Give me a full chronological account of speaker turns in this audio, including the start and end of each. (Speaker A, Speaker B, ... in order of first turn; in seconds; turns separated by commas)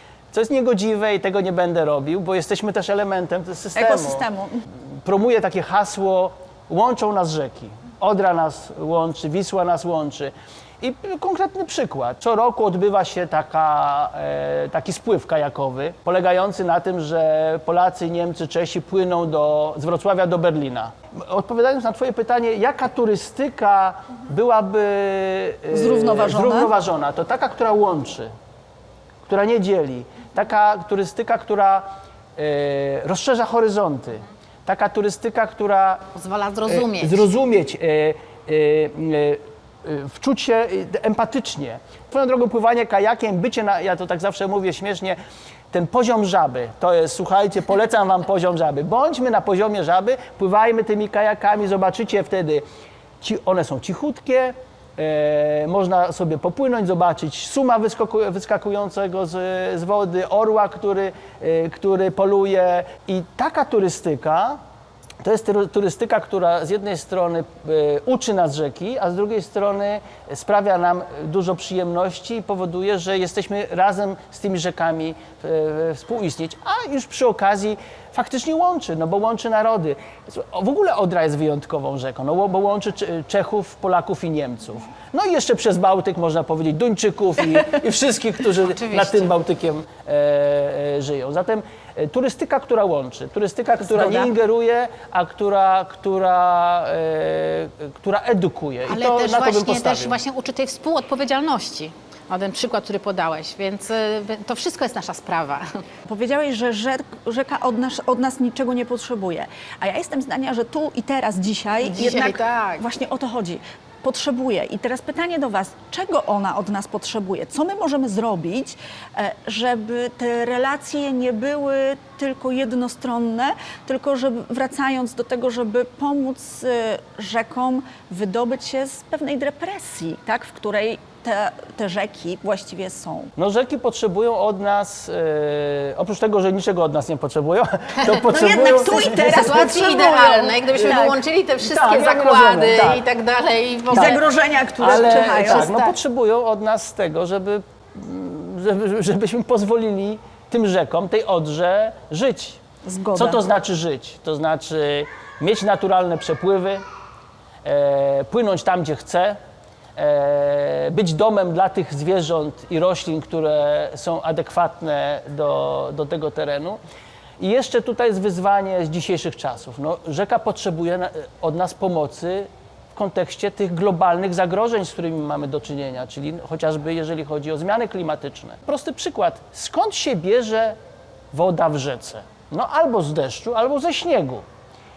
Speaker A: 0.3-4.2, Speaker B: 3.7-4.6, Speaker A: 5.0-28.3, Speaker B: 25.7-26.7, Speaker A: 29.2-36.0, Speaker C: 36.1-37.3, Speaker A: 36.7-45.2, Speaker A: 45.7-52.6, Speaker A: 53.2-64.6, Speaker A: 65.2-100.2, Speaker C: 88.7-89.3, Speaker B: 93.8-94.3, Speaker C: 98.9-105.7, Speaker B: 106.1-133.3, Speaker C: 111.8-112.8, Speaker A: 133.3-140.1, Speaker B: 138.2-141.2, Speaker C: 138.9-144.2, Speaker A: 140.8-141.0, Speaker A: 141.6-143.0, Speaker B: 143.9-145.7, Speaker A: 143.9-144.2, Speaker A: 144.8-152.6, Speaker C: 144.8-145.9, Speaker B: 152.8-153.4, Speaker A: 153.1-156.8, Speaker A: 157.6-159.4, Speaker A: 159.9-166.8, Speaker A: 167.4-180.8, Speaker A: 181.3-184.4